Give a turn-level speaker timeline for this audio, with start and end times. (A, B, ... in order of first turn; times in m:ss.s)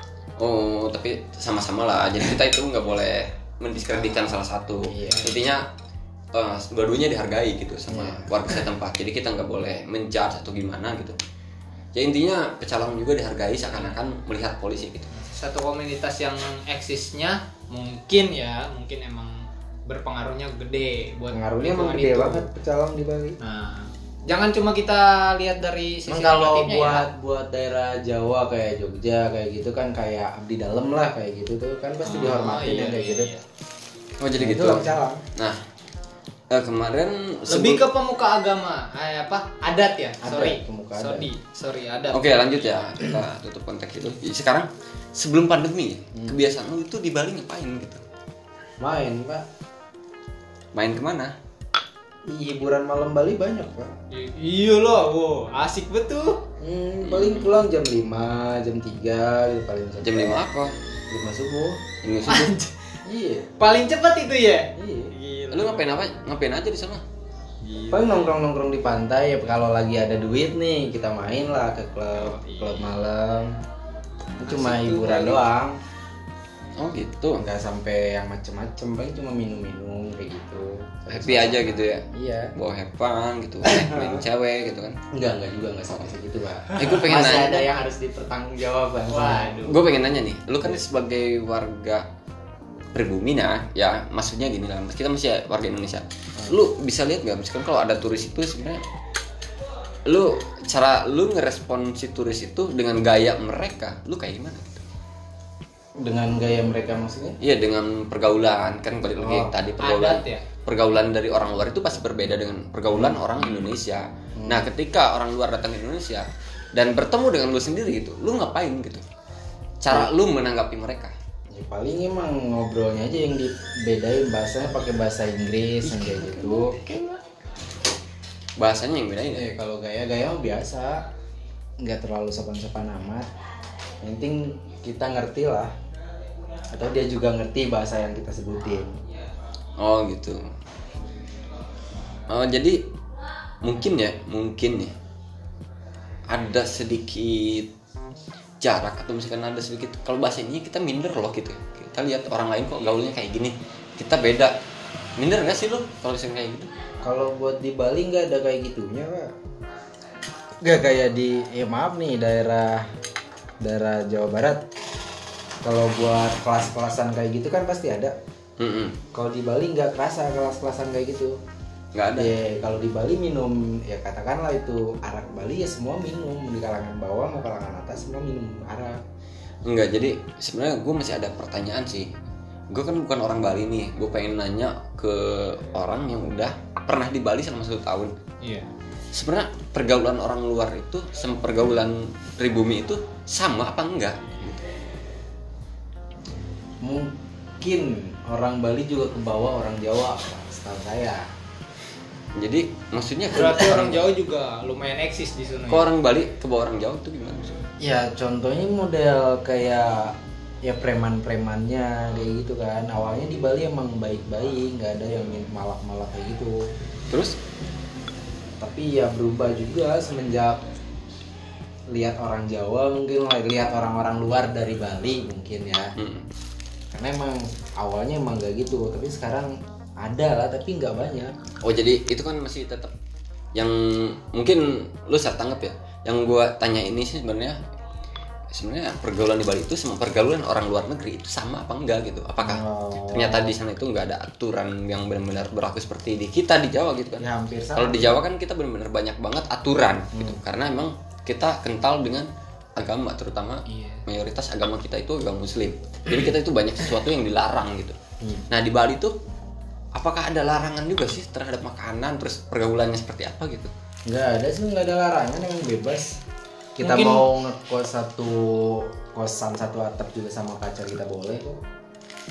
0:00.4-0:05.7 A
0:04.8-0:05.4 B
0:06.3-0:11.2 A
0:07.9-0:08.5 B
0:11.9-0:15.1 A
0:15.2-0:22.5 C
0:21.3-0:23.4 B
0:23.4-0:27.1 C
0:26.1-0:33.3 B
0:32.0-0:33.4 C
0:34.2-0:35.6 A
0:34.4-0:35.2 B
0:36.5-0:37.8 A
0:37.5-0:42.7 C
0:40.2-0:41.3 B
0:42.1-0:48.0 A
0:46.1-0:46.4 B
0:48.8-0:49.5 B
0:50.7-0:51.3 A
0:52.3-0:53.9 B
0:54.1-0:56.4 C
0:56.6-1:00.4 B
0:57.0-0:57.6 A
1:00.0-1:00.7 A
1:01.1-1:01.8 B
1:02.0-1:02.5 A
1:02.3-1:02.8 C
1:03.0-1:03.6 B
1:03.6-1:05.9 C
1:04.8-1:05.1 B
1:05.5-1:07.0 A
1:07.6-1:08.3 C
1:07.9-1:13.6 B
1:12.1-1:13.0 C
1:14.4-1:15.8 B
1:14.4-1:15.4 C
1:16.8-1:17.4 A
1:17.4-1:22.5 B
1:21.1-1:22.0 A
1:22.6-1:25.0 A
1:23.6-1:24.2 B
1:25.1-1:29.6 B
1:26.8-1:27.7 A
1:29.1-1:29.8 C
1:29.6-1:32.1 A
1:32.9-1:38.8 A
1:40.1-1:44.8 A
1:46.0-1:47.4 B
1:47.4-1:59.0 A
1:49.2-1:49.5 B
1:49.8-1:50.4 C
1:52.9-1:53.2 B
1:54.4-1:54.7 B
1:59.8-2:01.1 A
2:01.5-2:06.8 B
2:05.8-2:07.2 A
2:08.6-2:09.5 A
2:09.3-2:11.0 B
2:11.8-2:13.3 B
2:14.0-2:15.7 B
2:16.7-2:18.9 B
2:19.8-2:20.5 A
2:22.3-2:22.8 A
2:23.6-2:24.9 A
2:26.3-2:27.7 A
2:28.6-2:34.6 A
2:35.2-2:36.7 A
2:37.0-2:39.3 B
2:40.6-2:42.9 B
2:43.6-2:44.6 B
2:45.6-2:48.1 B
2:48.6-2:49.0 A
2:49.1-2:51.4 B
2:51.9-2:52.3 A
2:52.2-2:59.0 B
2:59.6-3:02.1 A
3:02.7-3:08.1 A
3:08.4-3:08.7 C
3:09.1-3:14.6 A
3:16.8-3:21.3 B
3:22.4-3:24.1 A
3:23.3-3:25.9 C
3:25.7-3:27.6 A
3:27.8-3:36.6 B
3:37.1-3:37.4 A
3:38.6-3:40.6 B
3:41.9-3:45.9 B
3:46.0-3:46.3 A
3:46.9-3:51.3 B
3:51.6-3:52.9 A
3:53.5-3:57.6 A
3:58.5-4:18.0 A
4:02.4-4:03.5 B
4:07.2-4:08.2 B
4:10.1-4:10.4 B
4:13.7-4:14.0 C
4:18.2-4:18.5 B
4:18.5-4:19.1 A
4:19.9-4:23.7 A
4:24.1-4:26.2 B
4:26.8-4:31.6 B
4:26.8-4:27.2 C